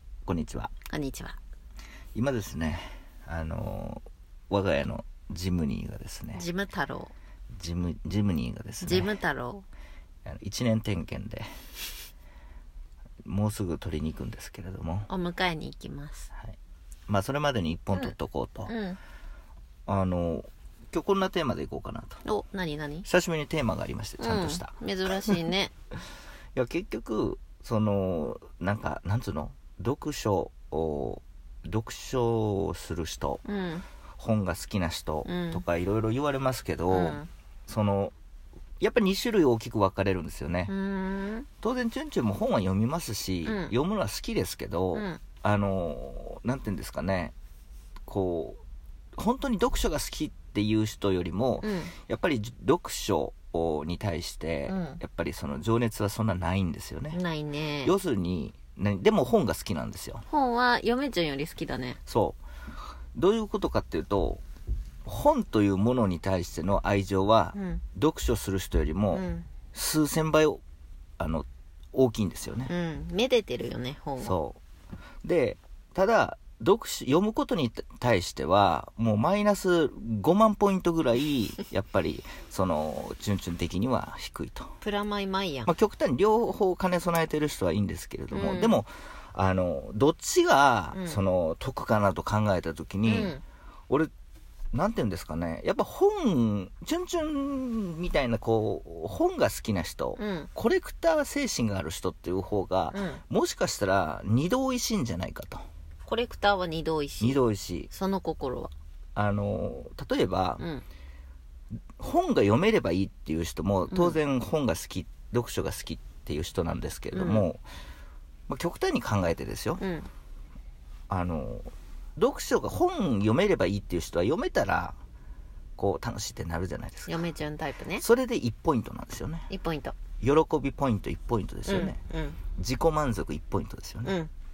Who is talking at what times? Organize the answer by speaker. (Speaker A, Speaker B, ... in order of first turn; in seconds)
Speaker A: 0.3-0.7, 2.1-6.4, 7.6-9.1, 10.2-11.5, 13.2-15.1, 17.1-18.7, 19.9-22.2, 23.1-25.4, 26.6-33.4, 34.2-38.1, 38.8-40.7, 41.6-47.4, 48.1-48.6, 49.2-57.2, 57.8-60.2, 62.1-62.4, 63.1-64.4, 65.0-70.6, 71.2-72.7, 74.2-74.6, 75.2-84.7, 85.7-93.4, 94.7-105.6, 107.2-107.9, 109.2-110.6, 112.0-117.6, 118.5-119.8, 121.1-125.0, 125.8-127.2, 128.0-129.5, 130.2-132.0, 132.6-134.2
Speaker B: 0.9-1.4, 6.3-7.1, 8.8-9.6, 15.1-16.3, 18.7-19.0, 22.2-23.1, 24.2-25.7, 33.4-33.9, 35.2-35.6, 36.9-37.3, 40.7-41.5, 43.5-43.7, 44.9-45.2, 51.6-51.9, 54.7-55.0, 57.1-57.9, 60.3-62.0, 67.5-67.8, 69.1-69.5, 72.7-74.3, 84.8-85.7, 88.3-88.8, 90.9-91.2, 93.0-93.4, 100.2-100.5, 102.9-103.2, 106.1-107.4, 107.9-108.7, 110.6-110.8, 113.9-114.2, 117.1-117.5, 119.8-120.1, 127.1-128.0, 129.5-130.0, 131.7-132.4, 134.0-134.3